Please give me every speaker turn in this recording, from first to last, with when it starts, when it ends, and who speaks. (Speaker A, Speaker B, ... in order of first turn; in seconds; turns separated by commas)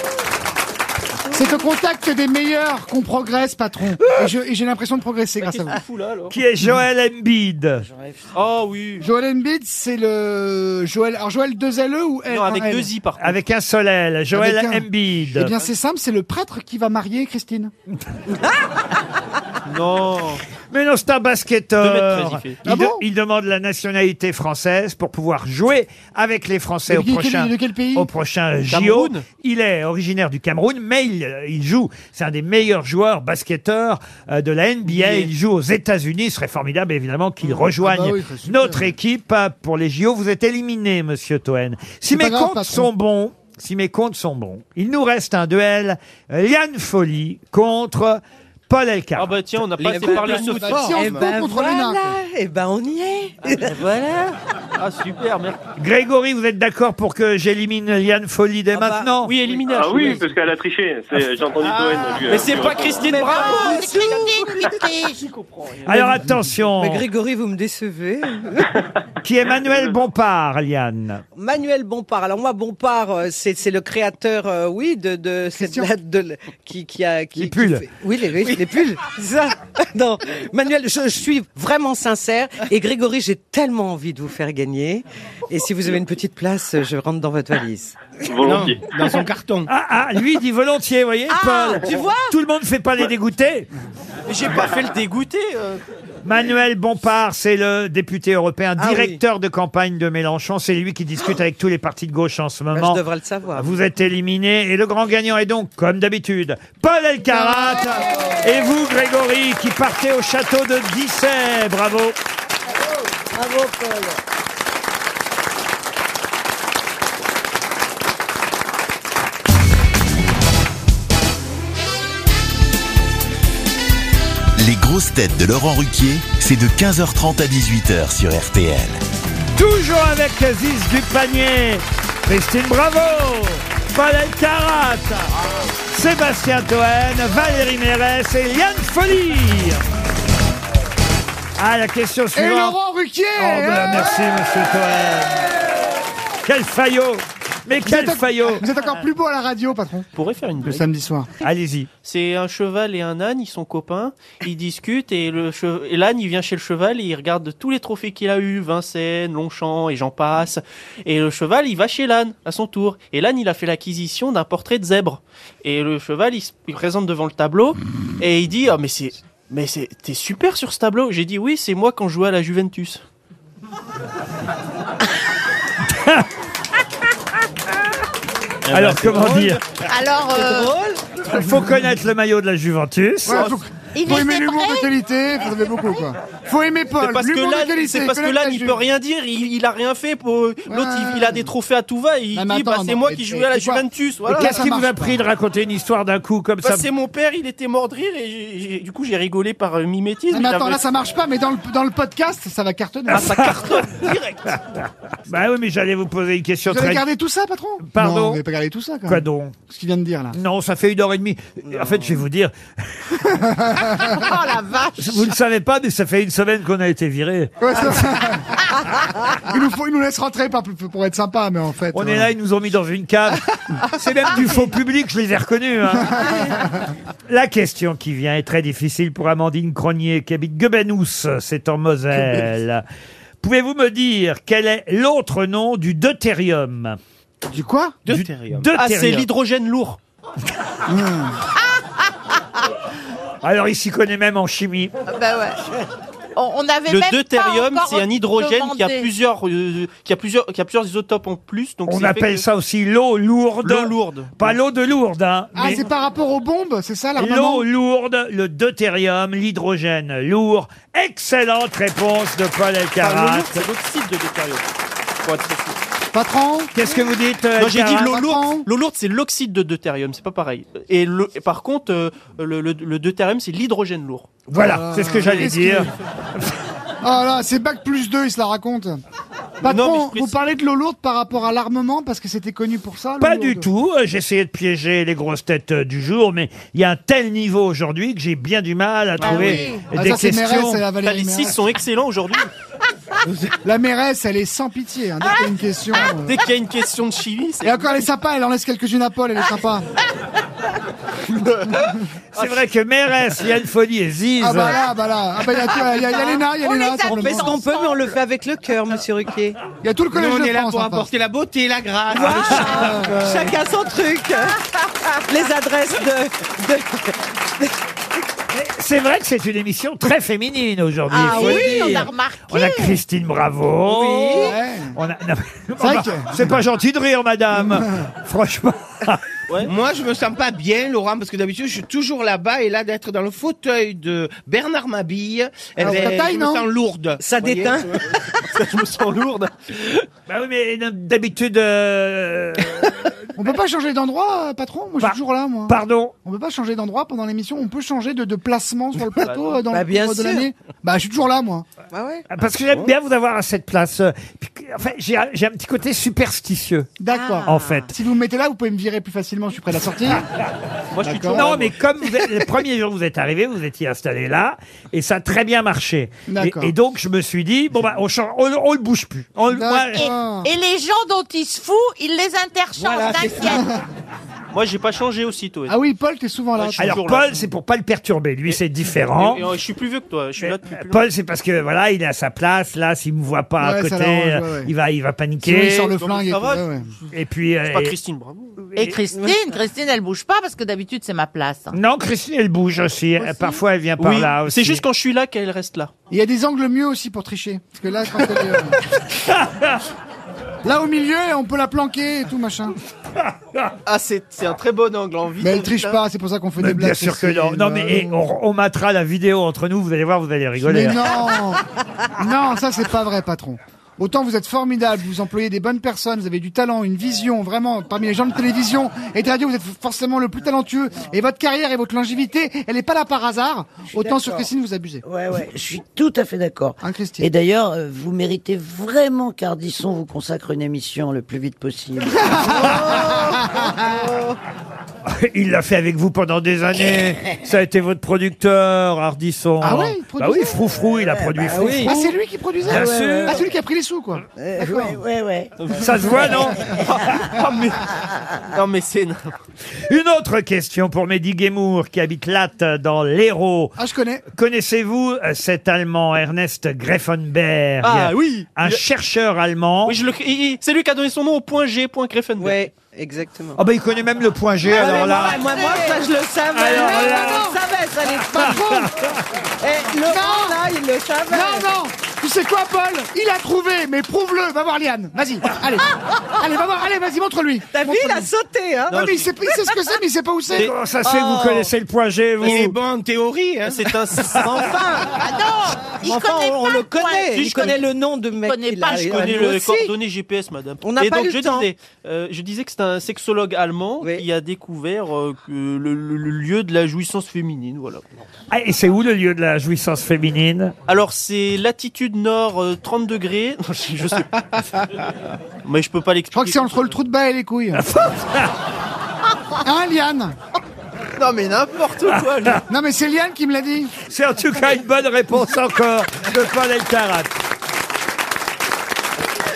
Speaker A: 1.3-5.8, Speaker B: 5.4-6.3, Speaker C: 6.3-7.8, Speaker D: 7.8-8.3, Speaker B: 8.3-9.1, Speaker A: 9.0-12.9, Speaker B: 12.3-13.4, Speaker C: 13.2-15.5, Speaker A: 14.3-17.7, Speaker B: 19.6-20.4, Speaker C: 20.7-49.4, Speaker B: 21.8-22.6, Speaker A: 22.6-23.0, Speaker A: 26.9-28.1, Speaker B: 28.7-29.2, Speaker B: 34.9-35.3, Speaker A: 37.4-38.9, Speaker A: 42.1-42.9, Speaker B: 49.2-51.1, Speaker E: 49.8-54.3, Speaker F: 50.0-51.2, Speaker A: 50.0-52.1, Speaker B: 54.8-55.6, Speaker C: 55.8-59.3, Speaker E: 58.7-59.1, Speaker B: 59.2-60.3, Speaker G: 59.7-63.4, Speaker F: 61.6-62.4, Speaker B: 62.3-64.2, Speaker E: 63.1-64.6, Speaker H: 63.3-65.2, Speaker B: 65.3-66.0, Speaker C: 65.8-67.0, Speaker E: 66.8-68.7, Speaker C: 69.2-71.2, Speaker E: 71.3-88.0, Speaker A: 75.5-75.9, Speaker C: 77.3-77.8, Speaker G: 88.3-89.0, Speaker F: 88.4-89.7, Speaker C: 89.7-93.7, Speaker E: 91.3-92.3, Speaker B: 94.3-95.8, Speaker C: 96.2-103.0, Speaker E: 98.8-99.2, Speaker E: 102.7-103.7, Speaker C: 103.5-112.2, Speaker D: 112.9-114.2, Speaker I: 124.6-129.0, Speaker C: 129.5-135.3, Speaker C: 135.9-139.8, Speaker C: 141.6-142.8, Speaker A: 142.3-144.5, Speaker C: 143.4-145.5, Speaker C: 146.4-148.7, Speaker A: 147.8-150.1, Speaker B: 150.2-150.9, Speaker A: 150.6-151.3, Speaker C: 151.4-151.9, Speaker B: 152.0-173.0, Speaker C: 175.9-176.2, Speaker C: 178.7-179.6, Speaker F: 178.7-179.5, Speaker H: 179.8-180.8, Speaker E: 180.3-180.9, Speaker C: 181.3-183.5, Speaker A: 183.2-188.8, Speaker B: 183.3-183.6, Speaker H: 183.9-184.9, Speaker B: 187.0-194.6, Speaker A: 190.7-191.4, Speaker A: 192.3-195.2, Speaker C: 194.3-196.9, Speaker B: 196.6-200.8, Speaker A: 200.3-203.5, Speaker B: 203.1-204.5, Speaker C: 203.1-207.0, Speaker A: 206.7-210.4, Speaker C: 207.9-208.4, Speaker C: 209.1-209.6, Speaker C: 210.3-213.0, Speaker A: 213.2-214.2, Speaker H: 214.2-215.3, Speaker C: 215.0-217.9, Speaker A: 217.6-218.6, Speaker A: 219.5-222.3, Speaker C: 221.9-226.3, Speaker A: 226.0-226.9, Speaker C: 227.3-232.8, Speaker C: 233.4-237.0, Speaker A: 237.4-238.0, Speaker F: 238.0-238.7, Speaker C: 238.1-239.3, Speaker B: 238.7-240.0, Speaker A: 240.9-241.4, Speaker C: 243.4-244.9, Speaker H: 245.1-245.6, Speaker H: 246.3-249.1, Speaker B: 246.9-252.4, Speaker C: 251.9-255.8, Speaker B: 253.6-254.6, Speaker A: 255.5-257.6, Speaker C: 257.2-263.6, Speaker B: 263.0-264.6, Speaker B: 265.2-265.8, Speaker A: 266.1-266.8, Speaker C: 266.7-268.2, Speaker B: 267.6-274.4, Speaker A: 267.9-268.7, Speaker C: 274.5-276.5, Speaker A: 274.5-275.9, Speaker A: 277.0-279.0, Speaker A: 279.6-283.7, Speaker B: 279.6-280.4, Speaker C: 283.2-290.8, Speaker A: 289.2-291.6, Speaker H: 289.2-289.9, Speaker B: 291.0-292.5, Speaker A: 293.6-296.4, Speaker B: 296.2-298.1, Speaker A: 297.6-299.9, Speaker A: 301.7-301.9, Speaker C: 302.3-304.8, Speaker A: 304.4-307.6, Speaker H: 305.6-308.1, Speaker E: 307.0-309.6, Speaker A: 309.8-311.1, Speaker F: 310.1-313.6, Speaker E: 312.1-314.6, Speaker A: 312.6-313.2, Speaker E: 315.2-317.7, Speaker C: 318.5-329.2, Speaker E: 321.1-322.1, Speaker H: 321.1-323.0, Speaker E: 323.8-324.5, Speaker A: 324.4-324.9, Speaker A: 325.8-326.6, Speaker A: 327.6-328.0, Speaker F: 329.6-338.0, Speaker A: 335.8-336.6, Speaker E: 337.2-338.1, Speaker B: 338.4-340.1, Speaker C: 340.3-343.1, Speaker A: 343.4-351.6, Speaker C: 345.0-346.1, Speaker B: 349.2-349.6, Speaker E: 349.7-350.5, Speaker E: 351.9-352.2, Speaker C: 352.3-356.9, Speaker A: 357.0-360.2, Speaker E: 357.1-357.9, Speaker C: 357.4-357.9, Speaker B: 360.9-361.8, Speaker A: 361.0-361.5, Speaker C: 361.3-370.0, Speaker A: 366.3-366.7, Speaker A: 369.5-370.5, Speaker H: 369.9-373.7, Speaker A: 373.4-373.8, Speaker B: 374.5-375.8, Speaker A: 375.7-377.2, Speaker B: 376.6-377.3, Speaker C: 376.8-379.4, Speaker B: 379.1-381.0, Speaker C: 380.4-385.9, Speaker A: 383.6-384.7, Speaker A: 385.4-386.9, Speaker B: 385.9-387.1, Speaker C: 387.1-387.9, Speaker B: 387.6-388.6, Speaker H: 388.8-391.8, Speaker C: 391.7-394.8, Speaker B: 394.0-395.9, Speaker A: 396.1-398.8, Speaker C: 399.3-399.8, Speaker A: 400.6-402.8, Speaker C: 403.2-403.7, Speaker B: 403.9-406.0, Speaker A: 405.4-408.2, Speaker C: 406.6-411.3, Speaker A: 410.6-411.6, Speaker A: 412.2-425.0, Speaker D: 423.9-424.5, Speaker D: 425.0-433.2, Speaker A: 426.8-427.3, Speaker A: 432.2-434.1, Speaker E: 432.9-433.2, Speaker C: 435.1-441.9, Speaker A: 439.6-440.7, Speaker D: 441.0-442.1, Speaker E: 441.5-442.0, Speaker A: 441.8-445.0, Speaker D: 442.6-443.5, Speaker C: 442.7-443.4, Speaker D: 444.4-446.8, Speaker B: 445.6-449.3, Speaker C: 445.8-446.6, Speaker A: 446.2-446.5, Speaker C: 449.9-453.8, Speaker A: 453.8-454.2, Speaker C: 454.3-460.0, Speaker B: 457.8-458.8, Speaker B: 459.8-462.7, Speaker E: 462.4-463.6, Speaker C: 463.6-465.5, Speaker E: 464.6-468.8, Speaker H: 464.8-466.1, Speaker C: 466.5-467.5, Speaker A: 466.7-467.6, Speaker C: 468.3-469.2, Speaker A: 468.4-468.9, Speaker E: 469.6-471.7, Speaker A: 470.0-470.6, Speaker A: 471.3-478.3, Speaker E: 477.7-479.2, Speaker A: 478.9-480.7, Speaker B: 478.9-479.3, Speaker C: 480.5-482.8, Speaker E: 481.0-481.7, Speaker F: 482.4-483.9, Speaker B: 483.6-484.6, Speaker E: 484.3-485.2, Speaker H: 485.1-487.8, Speaker E: 486.0-489.9, Speaker B: 487.3-487.8, Speaker H: 488.4-489.5, Speaker B: 488.9-498.1, Speaker E: 490.8-491.7, Speaker C: 498.5-500.7, Speaker B: 500.9-504.7, Speaker B: 505.6-507.0, Speaker A: 506.3-507.8, Speaker C: 507.7-508.5, Speaker A: 509.6-510.4, Speaker B: 511.2-512.6, Speaker A: 512.7-513.9, Speaker C: 514.1-517.3